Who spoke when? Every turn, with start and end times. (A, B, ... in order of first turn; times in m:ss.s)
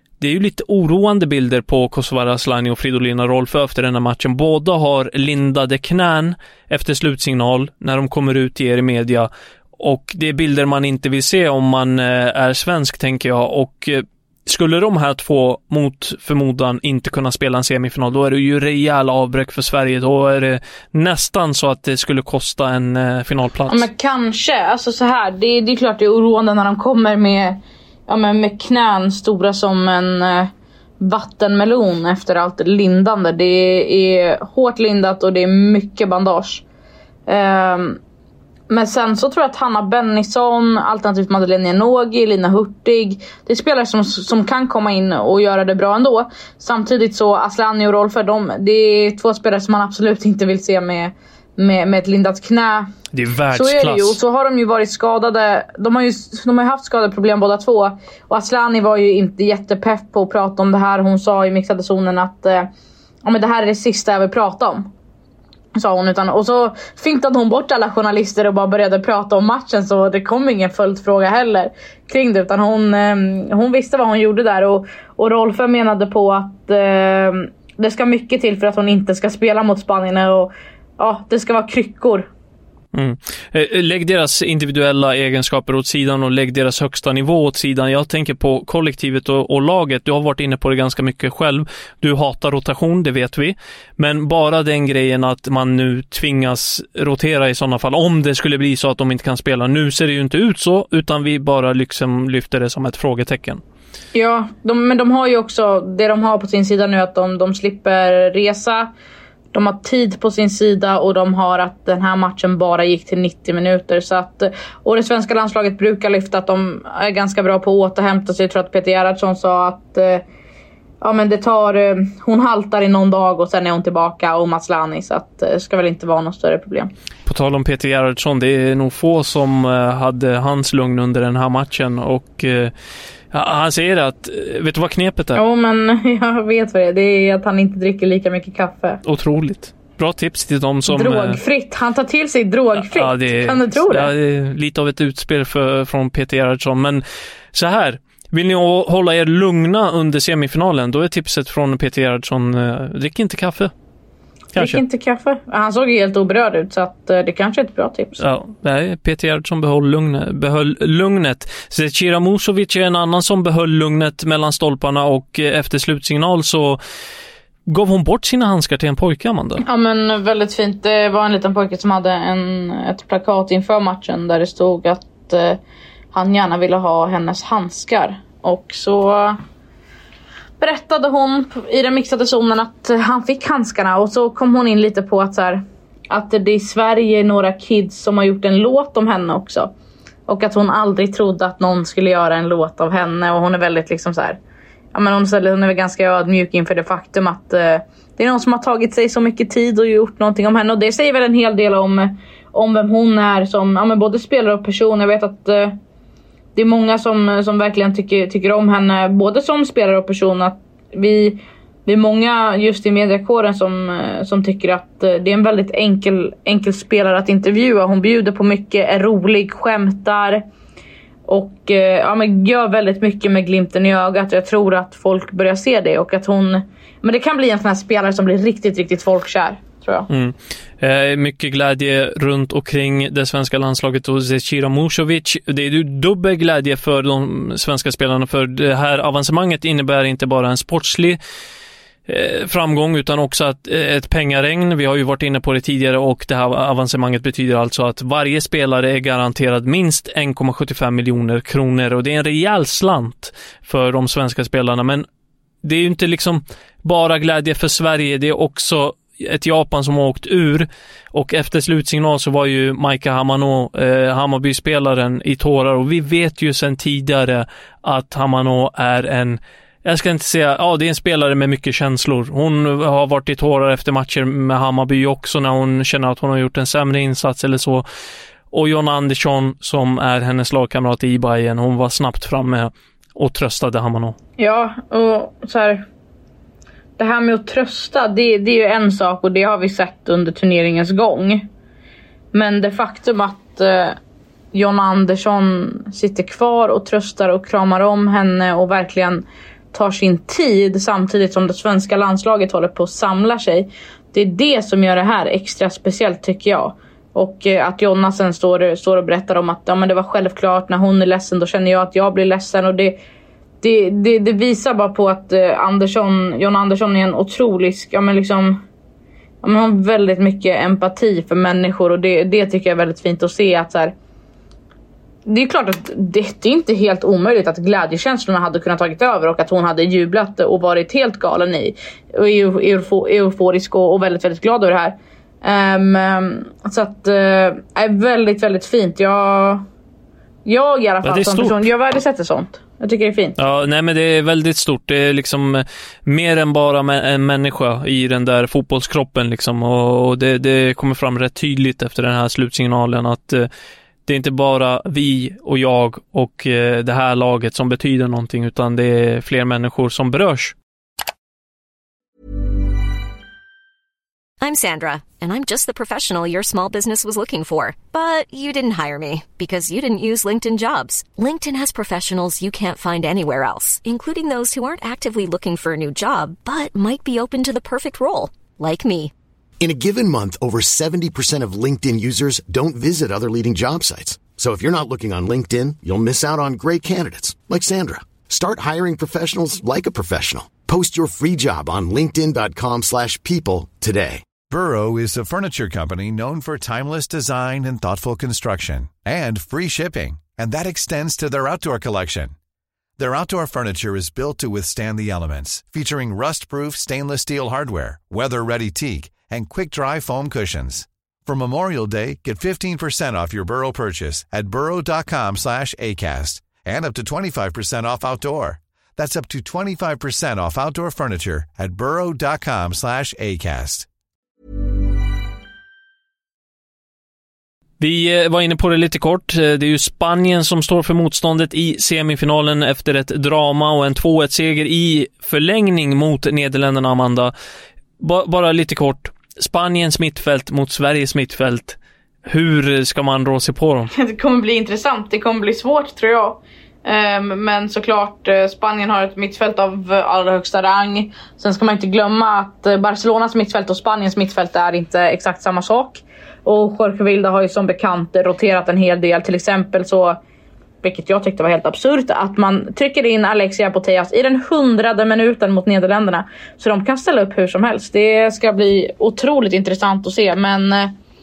0:00.2-0:23.8 A
0:23.7-0:36.6 B
0:37.3-0:38.0 B
0:38.7-0:52.9 B
0:53.1-0:54.2 A
0:53.5-1:02.7 B
1:03.2-1:04.9 B
1:05.7-1:22.3 B
1:22.9-1:43.6 A
1:44.1-1:48.9 B
1:49.5-2:00.2 B
2:01.0-2:06.9 B
2:07.2-2:12.7 A
2:13.3-2:15.4 A
2:15.4-2:19.0 B
2:19.0-2:21.4 A
2:20.9-2:24.1 B
2:22.8-2:27.0 A
2:27.5-2:33.7 A
2:34.5-2:34.8 A
2:34.6-2:38.2 B
2:38.2-2:46.8 A
2:47.7-2:49.6 A
2:49.6-2:55.6 B
2:56.1-2:59.4 B
3:00.6-3:09.7 B
3:10.3-3:14.4 B
3:14.9-3:25.7 B
3:26.6-3:40.4 B
3:41.3-3:50.1 B
3:50.1-4:01.2 A
4:02.1-4:15.0 A
4:15.6-4:37.8 A
4:38.5-4:44.2 A
4:44.4-4:45.8 B
4:47.0-4:51.5 B
4:52.3-4:54.0 B
4:54.5-5:13.0 B
5:13.6-5:18.6 B
5:19.4-5:23.9 B
5:25.3-5:39.6 B
5:40.4-5:43.4 B
5:41.0-5:41.5 A
5:43.4-5:53.5 A
5:54.0-6:00.5 A
6:04.4-6:19.1 C
6:19.6-6:34.2 D
6:34.5-6:42.3 E
6:43.0-7:03.9 E
7:07.8-7:17.3 A
7:18.0-7:23.9 A
7:23.9-7:40.2 B
7:40.8-7:50.9 B